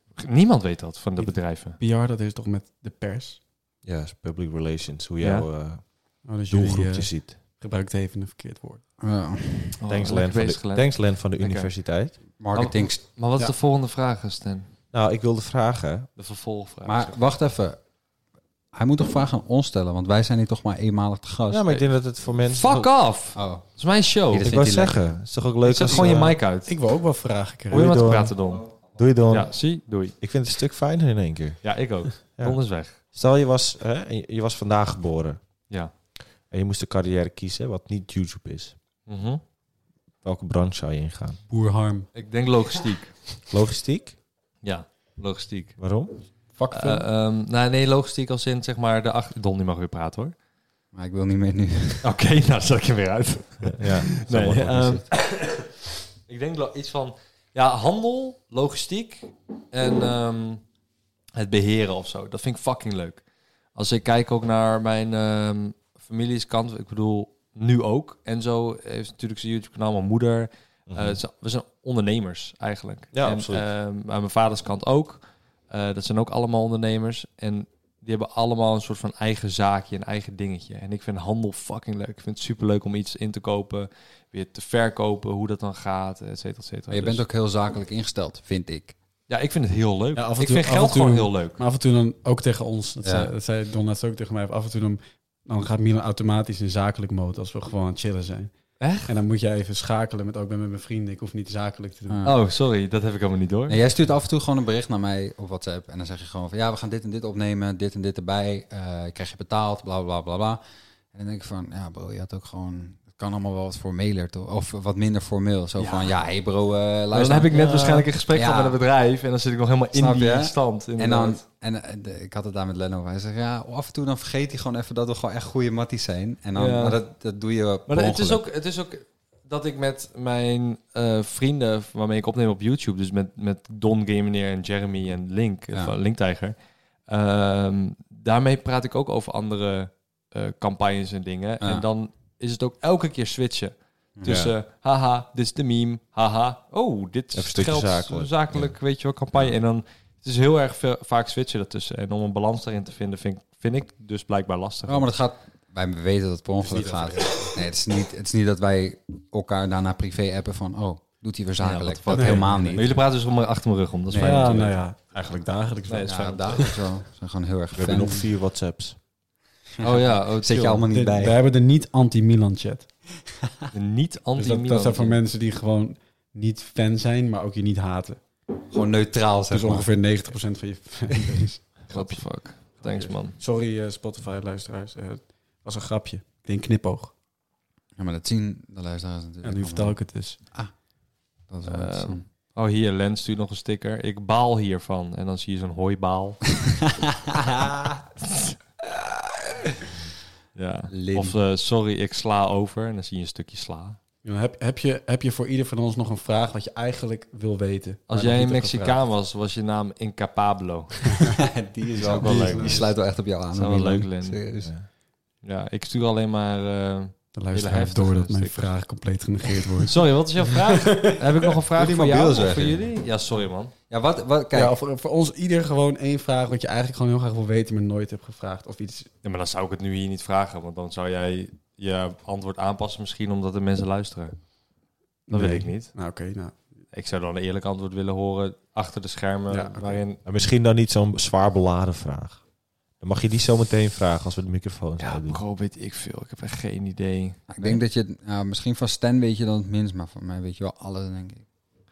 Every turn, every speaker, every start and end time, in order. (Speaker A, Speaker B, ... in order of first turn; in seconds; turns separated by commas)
Speaker A: 0.1-1.8, Speaker B: 1.2-3.4, Speaker C: 3.8-7.5, Speaker A: 5.2-5.5, Speaker B: 6.2-8.8, Speaker D: 9.0-9.8, Speaker A: 9.8-11.7, Speaker C: 9.9-12.2, Speaker A: 12.2-14.7, Speaker D: 12.4-13.0, Speaker C: 14.9-16.1, Speaker A: 16.2-17.2, Speaker D: 16.9-17.8, Speaker D: 18.7-21.8, Speaker C: 21.5-22.9, Speaker A: 22.4-24.6, Speaker D: 23.4-23.7, Speaker D: 24.3-25.1, Speaker C: 24.4-26.4, Speaker A: 25.6-26.8, Speaker B: 25.9-27.9, Speaker A: 27.7-28.7, Speaker C: 27.7-29.7, Speaker A: 29.3-30.2, Speaker C: 30.2-31.8, Speaker A: 31.6-33.0, Speaker C: 32.3-35.4, Speaker C: 36.5-38.8, Speaker A: 39.1-39.4, Speaker C: 40.2-41.4, Speaker B: 41.5-42.1, Speaker A: 42.1-43.2, Speaker C: 43.5-44.2, Speaker A: 44.6-45.8, Speaker C: 45.8-46.3, Speaker B: 46.5-47.1, Speaker A: 46.7-50.4, Speaker D: 50.9-52.1, Speaker A: 52.0-55.7, Speaker C: 53.7-55.1, Speaker A: 56.3-60.6, Speaker A: 61.4-63.2, Speaker A: 63.8-87.2, Speaker C: 70.9-71.2, Speaker C: 73.1-73.7, Speaker D: 86.9-89.0, Speaker A: 89.3-91.6, Speaker B: 90.2-98.5, Speaker D: 93.0-93.3, Speaker A: 98.8-99.2, Speaker B: 99.1-102.2, Speaker D: 102.1-102.4, Speaker A: 102.2-103.8, Speaker D: 103.7-110.6, Speaker D: 111.1-118.8, Speaker A: 115.8-116.1, Speaker A: 117.1-121.4, Speaker D: 119.9-128.5, Speaker A: 126.5-127.0, Speaker A: 127.9-136.6, Speaker A: 137.1-155.1, Speaker D: 141.6-141.9, Speaker D: 144.2-144.5, Speaker C: 147.3-148.7, Speaker D: 154.9-163.0, Speaker B: 156.6-157.6, Speaker A: 161.6-164.8, Speaker B: 162.1-162.7, Speaker D: 164.1-164.5, Speaker B: 164.2-166.3, Speaker A: 165.9-166.6, Speaker D: 166.1-168.2, Speaker C: 167.8-169.0, Speaker D: 169.8-171.4, Speaker A: 169.8-170.8, Speaker B: 170.9-173.0, Speaker A: 173.7-175.2, Speaker B: 174.4-178.2, Speaker D: 178.7-179.9, Speaker B: 179.5-187.1, Speaker A: 181.9-183.4, Speaker D: 188.0-190.0, Speaker B: 189.4-190.4, Speaker D: 191.5-192.2, Speaker A: 191.7-196.4, Speaker D: 197.3-197.9, Speaker A: 200.6-204.0, Speaker D: 200.9-201.4, Speaker B: 204.2-209.0, Speaker A: 208.1-211.3, Speaker D: 211.4-214.7, Speaker B: 211.9-212.9, Speaker A: 212.0-213.0, Speaker A: 213.5-214.4, Speaker C: 214.6-214.9, Speaker A: 215.4-218.7, Speaker B: 217.3-221.2, Speaker A: 219.8-223.7, Speaker D: 221.8-222.9, Speaker D: 223.9-224.7, Speaker B: 224.5-229.1, Speaker A: 229.2-234.4, Speaker B: 235.3-236.6, Speaker A: 235.3-235.9, Speaker A: 236.9-240.2, Speaker B: 239.5-240.0, Speaker C: 240.2-242.4, Speaker C: 243.0-245.4, Speaker A: 245.0-247.8, Speaker D: 247.5-251.4